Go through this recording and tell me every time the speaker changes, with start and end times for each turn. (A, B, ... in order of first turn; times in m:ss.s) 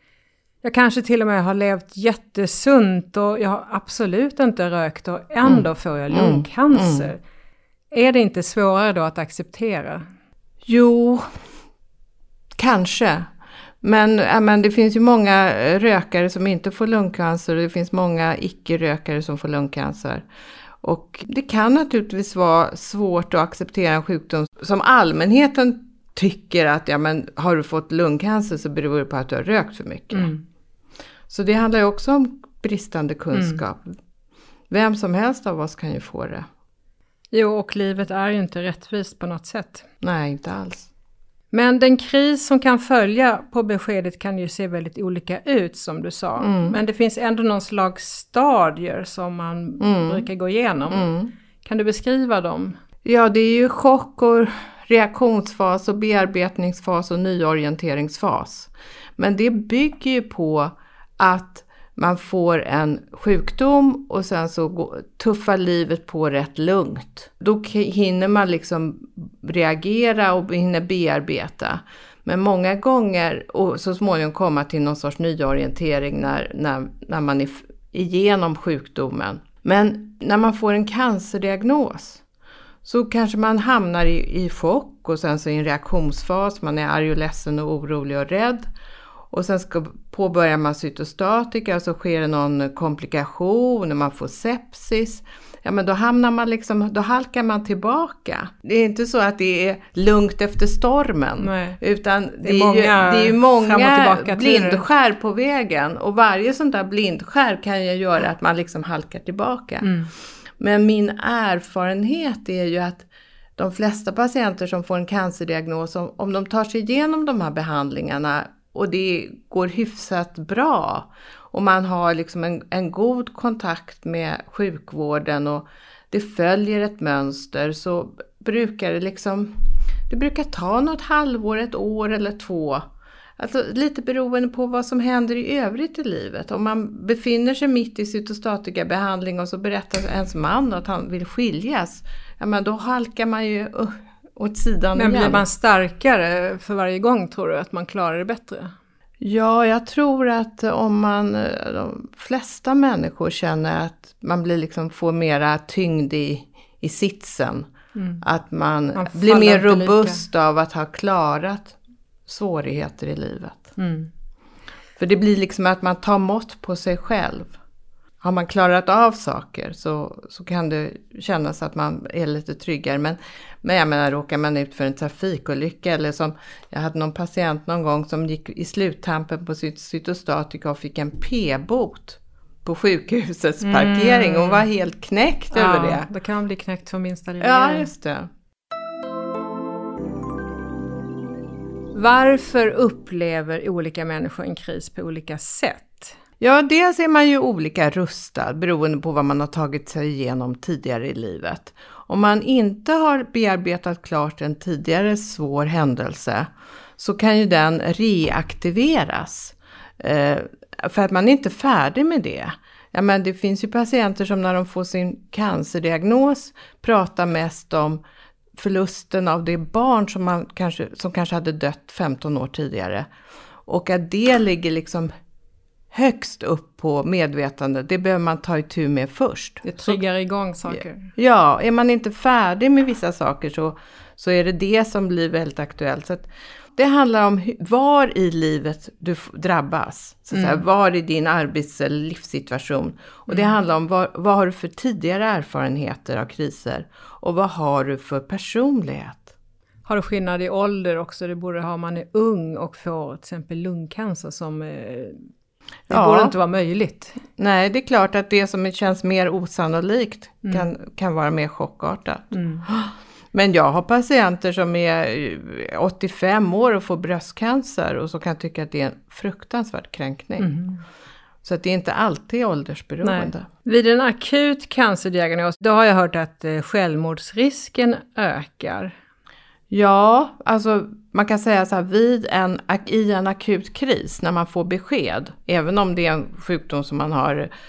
0:00.6-0:07.2 A
0:05.4-0:07.1 B
0:07.9-0:10.0 A
0:10.6-0:11.3 B
0:12.6-0:13.3 B
0:13.8-0:20.2 B
0:20.8-0:30.3 B
0:30.1-0:30.4 A
0:31.3-0:33.9 B
0:33.3-0:33.6 A
0:34.7-0:36.4 B
0:37.3-0:39.8 A
0:40.0-0:40.9 B
0:41.5-0:51.1 A
0:46.4-0:46.8 B
0:49.8-0:50.3 B
0:50.9-0:51.3 B
0:51.6-0:52.8 A
0:53.0-1:22.2 B
1:22.8-1:28.7 B
1:29.3-1:49.9 B
1:41.4-1:41.8 A
1:42.4-1:44.8 A
1:49.8-1:50.1 A
1:50.6-2:25.4 B
2:24.9-2:28.7 A
2:29.2-2:37.7 B
2:37.9-2:38.2 A
2:38.2-2:43.7 B
2:38.9-2:40.2 A
2:43.8-2:44.1 A
2:45.0-2:47.5 B
2:48.2-3:06.1 B
3:03.6-3:04.6 A
3:05.5-3:07.9 A
3:07.4-3:08.3 B
3:11.9-3:16.1 A
3:16.4-3:38.0 B
3:38.6-3:43.1 B
3:43.6-3:45.1 B
3:45.9-3:50.0 B
3:49.6-3:51.1 A
3:50.7-4:09.3 B
4:00.3-4:00.6 A
4:03.3-4:03.5 A
4:09.8-4:15.3 A
4:15.9-4:17.2 A
4:15.9-4:16.3 B
4:17.4-4:30.5 B
4:22.3-4:22.7 A
4:30.4-4:30.8 A
4:31.4-4:33.5 B
4:33.0-4:38.9 A
4:39.7-4:47.5 B